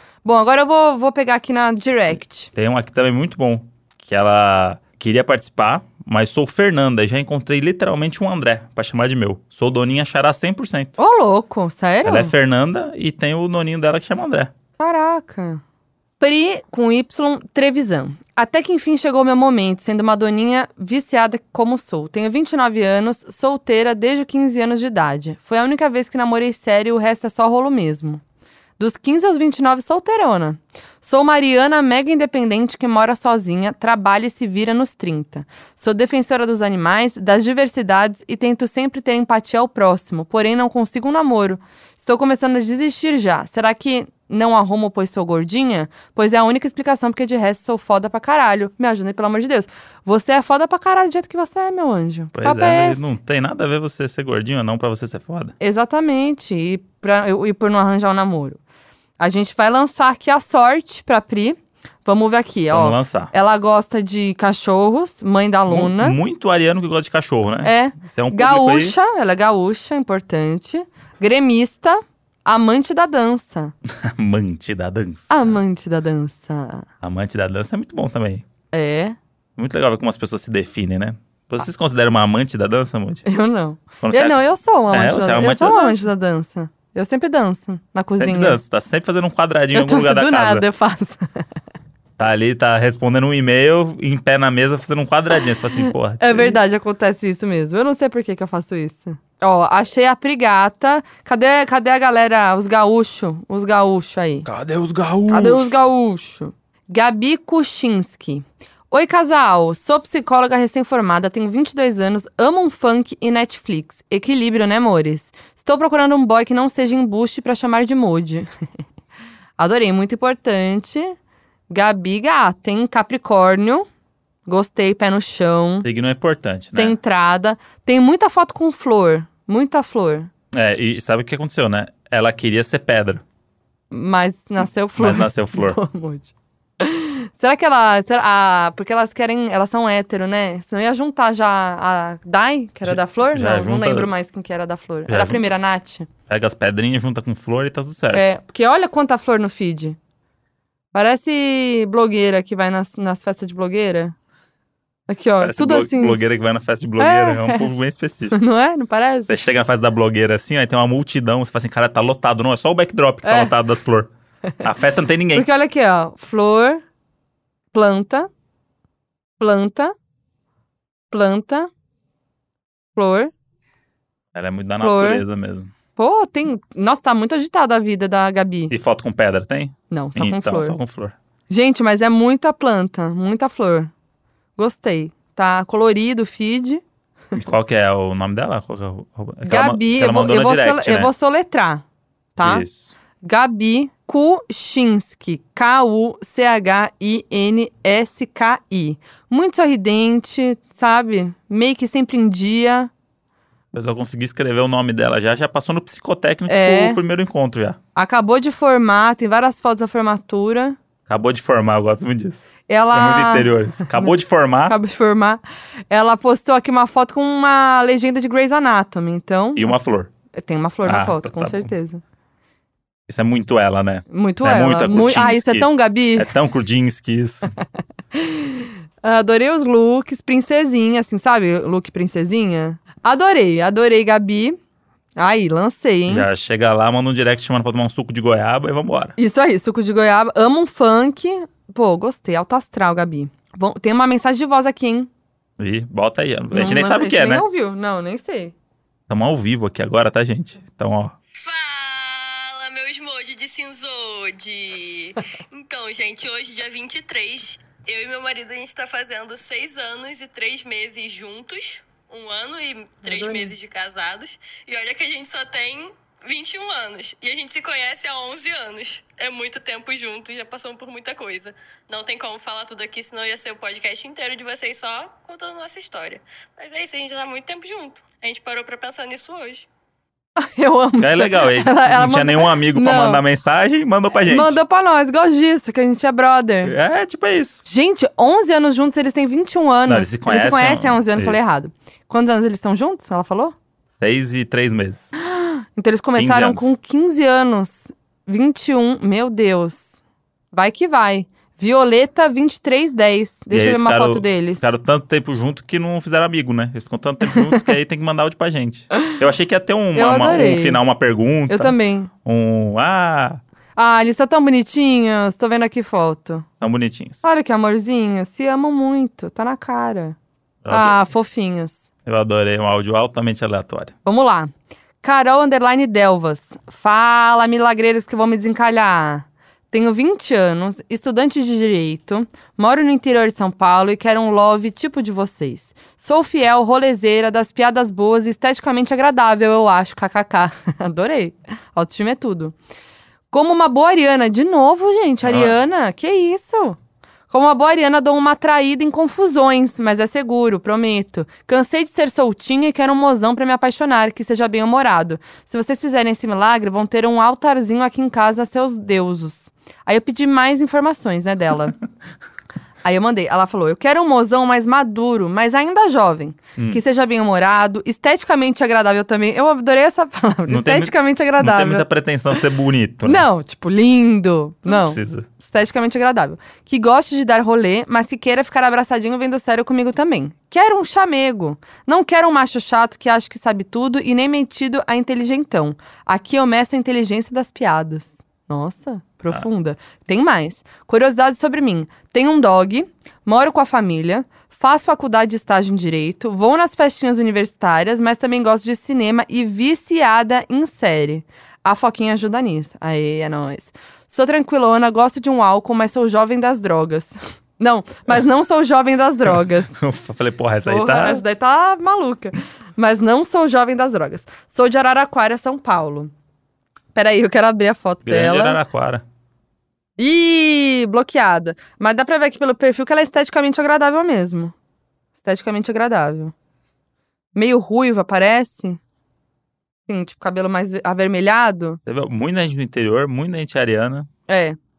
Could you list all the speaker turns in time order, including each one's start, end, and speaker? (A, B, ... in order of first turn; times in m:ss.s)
0:00.2-0:02.5 A
0:02.5-0:11.0 B
0:11.0-0:12.3 A
0:12.0-0:14.5 B
0:14.8-0:15.6 A
0:16.2-0:28.2 A
0:28.8-0:53.1 A
0:52.4-0:55.5 B
0:55.6-0:58.6 A
0:59.2-1:06.2 A
1:02.7-1:03.3 B
1:05.7-1:09.0 B
1:07.6-1:13.7 A
1:13.8-1:15.6 B
1:15.3-1:16.9 A
1:17.0-1:18.4 B
1:18.7-1:19.2 A
1:19.6-1:23.2 B
1:23.2-1:28.6 A
1:24.0-1:24.4 B
1:24.9-1:26.1 B
1:28.2-1:30.6 B
1:29.7-1:31.5 A
1:32.2-1:36.6 B
1:36.2-1:44.5 A
1:44.4-1:45.7 B
1:45.3-1:58.5 A
1:59.6-2:01.2 A
2:01.7-2:03.9 A
2:04.5-2:05.9 A
2:05.8-2:07.0 B
2:06.7-2:10.3 A
2:10.5-2:13.2 B
2:13.9-2:26.1 A
2:15.0-2:15.8 B
2:22.8-2:24.1 B
2:25.1-2:25.5 B
2:26.3-2:28.3 B
2:28.1-2:30.0 A
2:30.9-2:34.2 A
2:35.1-2:36.2 A
2:35.4-2:38.4 B
2:37.0-2:37.7 A
2:38.3-2:39.3 A
2:39.3-2:44.1 B
2:43.2-2:43.5 A
2:44.6-2:45.5 B
2:45.3-2:46.8 A
2:47.7-2:48.3 A
2:49.4-2:49.9 A
2:51.1-2:51.7 A
2:53.0-2:53.3 A
2:54.3-2:55.7 B
2:54.8-2:55.2 A
2:56.0-2:58.7 A
2:58.7-3:01.2 B
2:59.9-3:00.8 A
3:01.5-3:03.9 A
3:04.6-3:06.8 A
3:07.3-3:11.1 B
3:09.4-3:11.8 A
3:12.4-3:12.6 A
3:12.4-3:12.9 B
3:13.2-3:22.9 A
3:23.7-3:27.8 B
3:26.5-3:27.0 A
3:28.0-3:30.8 A
3:31.1-3:34.8 B
3:32.7-3:34.1 A
3:34.7-3:39.7 A
3:39.6-3:40.1 B
3:40.3-3:42.0 A
3:40.8-3:41.7 B
3:43.1-3:47.5 B
3:44.1-3:46.3 A
3:48.1-3:54.6 A
3:55.2-3:56.3 A
3:56.1-3:59.2 B
3:59.2-4:05.1 A
4:05.6-4:07.4 B
4:06.5-4:08.5 A
4:09.1-4:11.2 B
4:11.3-4:39.7 C
4:23.0-4:23.6 A
4:40.4-4:43.2 A
4:41.0-4:44.6 B
4:44.3-4:46.7 A
4:46.6-4:47.6 B
4:47.6-4:53.6 A
4:49.9-4:51.4 B
4:54.0-4:55.1 B
4:55.2-5:00.0 A
4:56.2-4:56.7 B
5:00.5-5:04.7 A
5:03.5-5:13.4 B
5:10.0-5:10.8 A
5:11.5-5:12.1 A
5:13.8-5:16.5 A
5:16.6-5:17.2 B
5:17.2-5:20.2 A
5:20.6-5:21.0 B
5:20.7-5:21.9 A
5:22.0-5:23.9 B
5:24.0-5:42.6 A
5:43.3-5:46.8 A
5:45.2-5:45.6 B
5:47.3-6:01.8 A
6:02.8-6:12.3 A
6:10.5-6:13.3 B
6:13.0-6:49.8 A
6:14.7-6:15.3 B
6:49.8-6:51.2 B
6:50.6-6:56.1 A
6:57.0-6:58.6 A
6:58.0-6:59.0 B
7:00.0-7:04.5 A
7:05.2-7:06.3 A
7:07.4-7:08.8 A
7:09.9-7:11.8 A
7:11.9-7:14.1 B
7:14.3-7:14.6 A